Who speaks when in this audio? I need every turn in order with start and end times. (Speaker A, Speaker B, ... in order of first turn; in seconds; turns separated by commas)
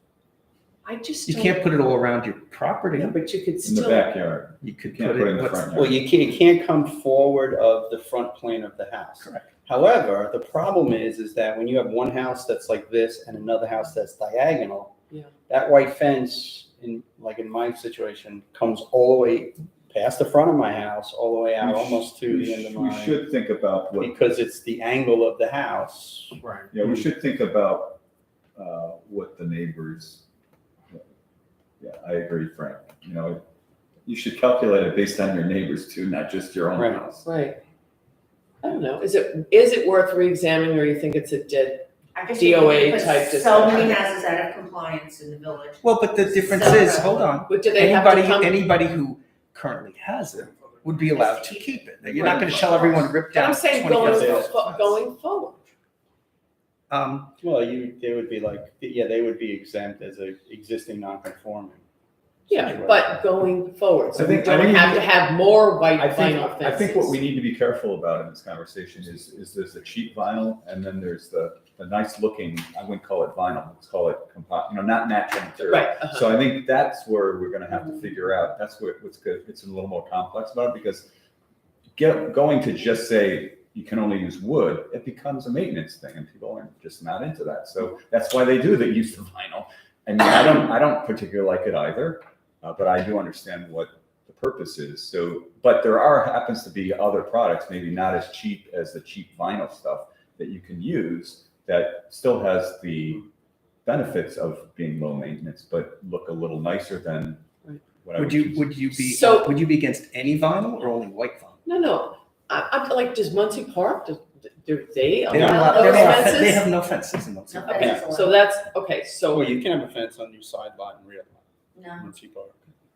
Speaker A: 0.8-1.6, Speaker B: 1.3-3.2, Speaker A: 3.0-4.1, Speaker C: 3.6-6.0, Speaker B: 4.6-5.7, Speaker D: 5.7-14.9, Speaker D: 15.5-23.3, Speaker C: 21.6-24.1, Speaker D: 24.0-27.1, Speaker C: 26.7-28.0, Speaker C: 28.6-30.2, Speaker C: 31.8-33.4, Speaker C: 34.0-37.3, Speaker D: 36.7-37.0, Speaker A: 37.2-37.6, Speaker A: 38.6-44.1, Speaker E: 42.1-47.2, Speaker B: 45.8-55.0, Speaker A: 47.5-48.6, Speaker E: 51.1-53.1, Speaker D: 52.2-52.5, Speaker A: 53.2-55.6, Speaker D: 54.0-54.5, Speaker B: 56.9-57.3, Speaker D: 57.4-61.8, Speaker D: 62.5-63.2, Speaker A: 62.5-67.2, Speaker C: 64.1-65.2, Speaker C: 65.9-81.1, Speaker A: 75.6-76.4, Speaker C: 82.0-103.2, Speaker C: 103.8-107.4, Speaker C: 108.0-108.7, Speaker B: 108.2-111.6, Speaker A: 108.9-109.6, Speaker A: 111.6-116.7, Speaker B: 115.3-118.1, Speaker E: 115.3-116.5, Speaker E: 117.5-118.4, Speaker A: 117.7-119.6, Speaker D: 119.3-122.6, Speaker E: 121.7-122.1